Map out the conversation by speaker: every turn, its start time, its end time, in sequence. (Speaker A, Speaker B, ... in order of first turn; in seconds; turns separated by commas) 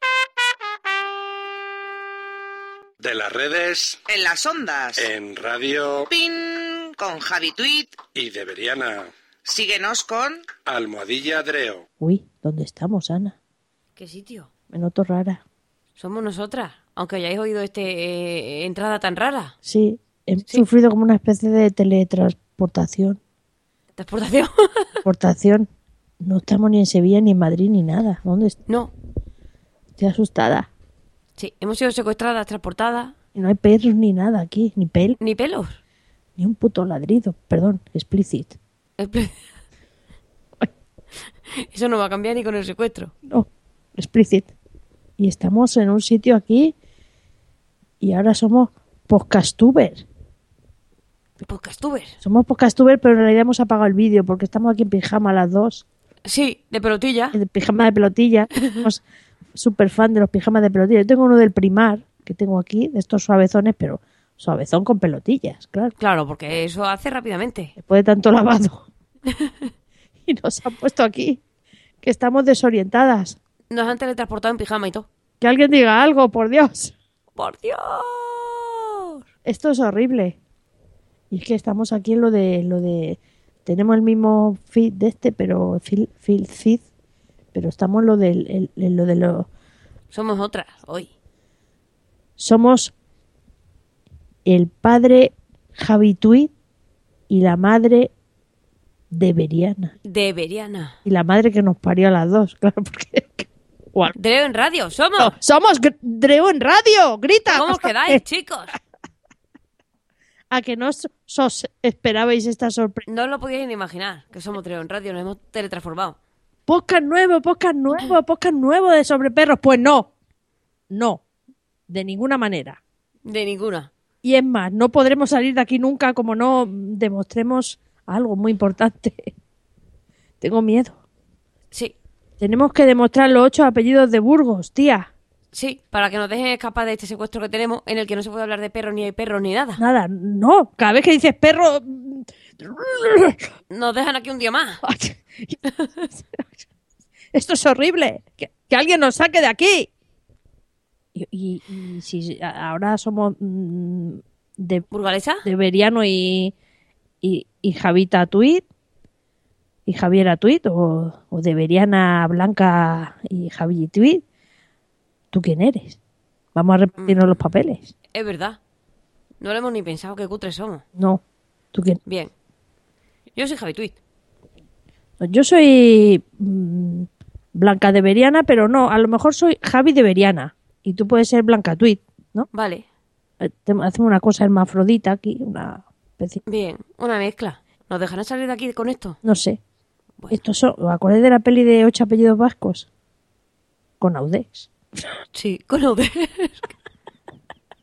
Speaker A: 3.0-4.0, Speaker B: 4.0-5.1, Speaker A: 4.9-6.1, Speaker B: 6.1-8.0, Speaker A: 8.0-9.1, Speaker B: 9.4-10.4, Speaker A: 10.5-11.8, Speaker C: 12.0-13.3, Speaker D: 13.9-14.5, Speaker C: 14.7-15.4, Speaker D: 16.0-19.5, Speaker C: 19.6-23.2, Speaker D: 23.9-25.0, Speaker C: 25.0-25.7, Speaker C: 26.2-28.6, Speaker D: 28.7-28.9, Speaker C: 30.0-30.7, Speaker D: 31.4-33.1, Speaker C: 33.3-35.2, Speaker D: 35.2-35.8, Speaker C: 36.4-38.6, Speaker D: 39.0-39.5, Speaker D: 41.5-43.1, Speaker C: 43.3-44.5, Speaker C: 45.2-46.7, Speaker C: 48.0-50.0, Speaker D: 51.4-52.2, Speaker C: 52.2-55.8, Speaker D: 56.2-57.4, Speaker C: 57.3-59.0, Speaker C: 59.5-65.9, Speaker D: 66.0-67.7, Speaker C: 67.8-68.9, Speaker D: 69.3-69.7, Speaker C: 70.2-71.4, Speaker C: 72.0-73.4, Speaker D: 73.7-75.1, Speaker C: 75.4-76.9, Speaker D: 77.3-79.2, Speaker C: 79.4-80.4, Speaker C: 81.3-86.8, Speaker C: 87.5-89.5, Speaker D: 90.1-91.1, Speaker C: 92.4-92.9, Speaker C: 94.4-96.5, Speaker C: 97.3-98.1, Speaker C: 99.1-99.9, Speaker D: 100.0-101.0, Speaker C: 101.0-104.1, Speaker D: 104.2-105.3, Speaker C: 105.2-108.2, Speaker D: 107.5-108.8, Speaker C: 110.5-113.0, Speaker D: 113.0-116.2, Speaker C: 116.7-120.1, Speaker C: 120.9-121.2, Speaker C: 121.9-122.8, Speaker D: 123.2-123.9, Speaker C: 124.2-129.3, Speaker C: 130.4-131.0, Speaker C: 132.4-135.1, Speaker D: 135.5-139.8, Speaker C: 139.8-143.4, Speaker D: 143.7-144.8, Speaker C: 144.8-146.5, Speaker C: 147.3-149.9, Speaker C: 151.1-154.8, Speaker D: 154.9-155.4, Speaker C: 155.4-156.5, Speaker C: 157.2-158.6, Speaker C: 159.8-164.2, Speaker C: 165.3-166.0, Speaker C: 166.5-167.9, Speaker D: 167.0-167.3, Speaker D: 168.1-168.6, Speaker D: 169.4-170.8, Speaker C: 170.9-171.2, Speaker C: 171.7-172.0, Speaker D: 172.0-172.3, Speaker D: 173.3-173.9, Speaker C: 175.2-182.5, Speaker D: 182.5-182.8, Speaker C: 183.4-186.4, Speaker D: 186.4-189.2, Speaker C: 189.2-189.6, Speaker C: 190.3-192.9, Speaker C: 194.0-194.7, Speaker D: 195.3-196.7